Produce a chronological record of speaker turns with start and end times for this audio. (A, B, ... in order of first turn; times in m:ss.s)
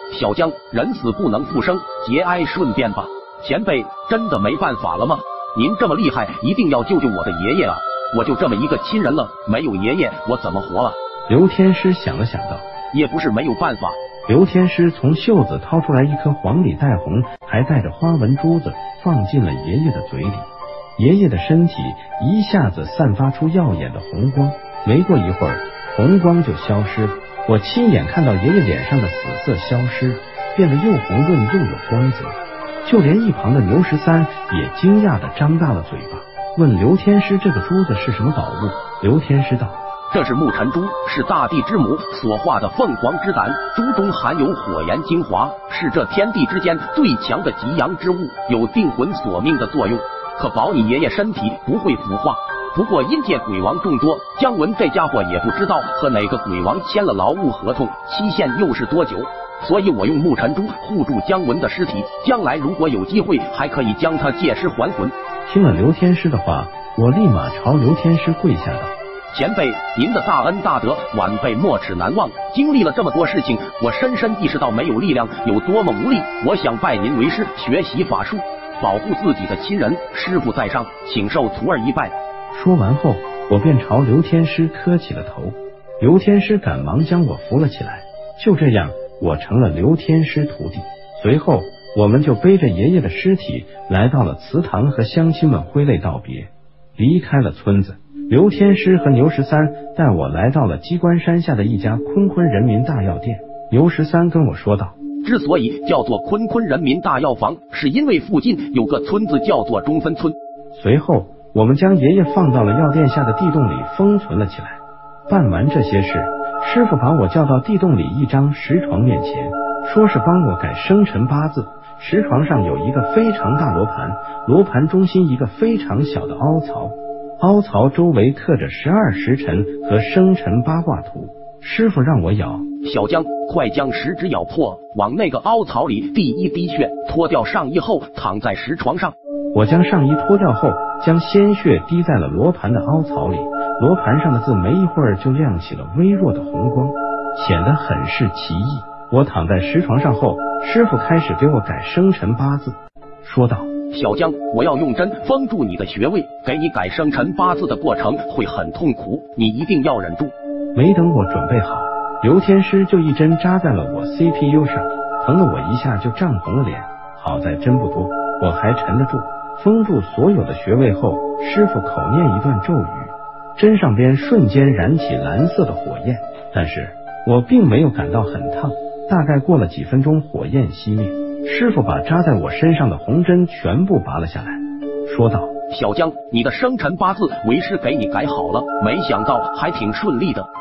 0:00.1-0:11.0 A
0:11.3-0:12.7 B
0:12.9-0:14.0 A
0:14.3-0:39.8 B
0:40.1-1:05.1 A
1:05.5-1:08.9 B
1:09.3-1:22.2 A
1:22.5-1:45.0 B
1:45.2-1:50.4 A
1:50.8-2:12.7 B
2:12.8-2:19.2 A
2:19.5-2:33.7 B
2:33.9-2:40.3 A
2:40.8-3:05.5 B
3:05.7-3:10.5 A